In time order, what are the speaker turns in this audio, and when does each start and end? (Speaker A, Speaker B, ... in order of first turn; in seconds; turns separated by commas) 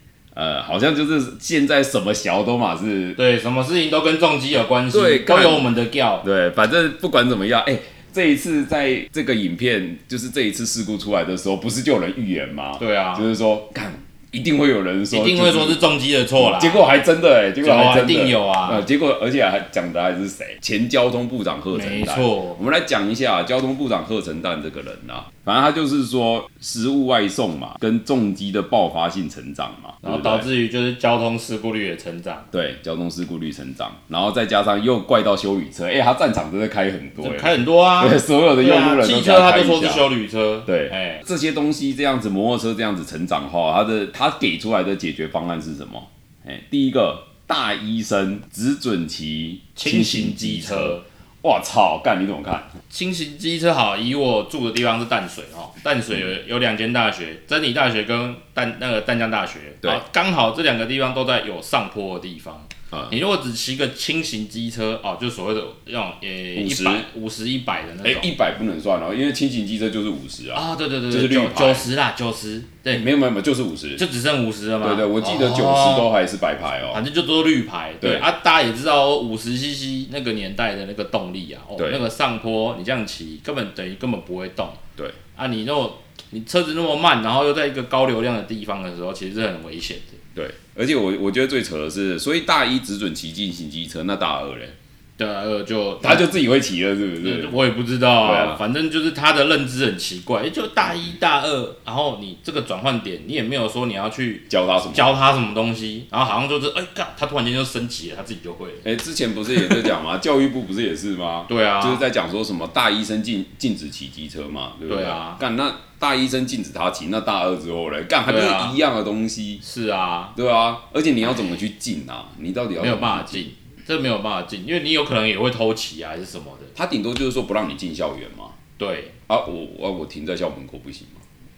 Speaker A: 0.3-3.2, Speaker B: 3.2-6.2, Speaker A: 4.9-5.7, Speaker A: 6.2-15.8, Speaker B: 12.8-13.3, Speaker B: 15.1-17.0, Speaker A: 16.4-30.5, Speaker B: 17.6-18.9, Speaker B: 21.7-22.6, Speaker B: 30.0-32.5, Speaker A: 32.5-40.1, Speaker B: 37.2-41.2, Speaker A: 40.7-52.8, Speaker B: 49.8-51.0, Speaker B: 52.9-68.3, Speaker A: 66.5-67.1, Speaker A: 68.0-71.9, Speaker B: 70.5-73.1, Speaker A: 72.9-74.0, Speaker B: 74.0-76.1, Speaker A: 74.8-77.0, Speaker B: 76.9-84.8, Speaker A: 78.0-78.3, Speaker A: 81.8-82.0, Speaker B: 85.3-90.2, Speaker A: 90.3-94.8, Speaker B: 95.2-96.3, Speaker A: 96.0-97.6, Speaker B: 97.2-108.9, Speaker A: 98.2-98.6, Speaker A: 104.5-105.1, Speaker A: 108.8-119.6, Speaker B: 109.5-109.9, Speaker B: 111.5-112.0, Speaker B: 114.9-115.4, Speaker B: 118.3-118.8, Speaker B: 119.6-120.4, Speaker A: 120.3-123.5, Speaker B: 122.8-126.8, Speaker A: 126.8-128.6, Speaker B: 128.8-129.2, Speaker A: 129.3-131.2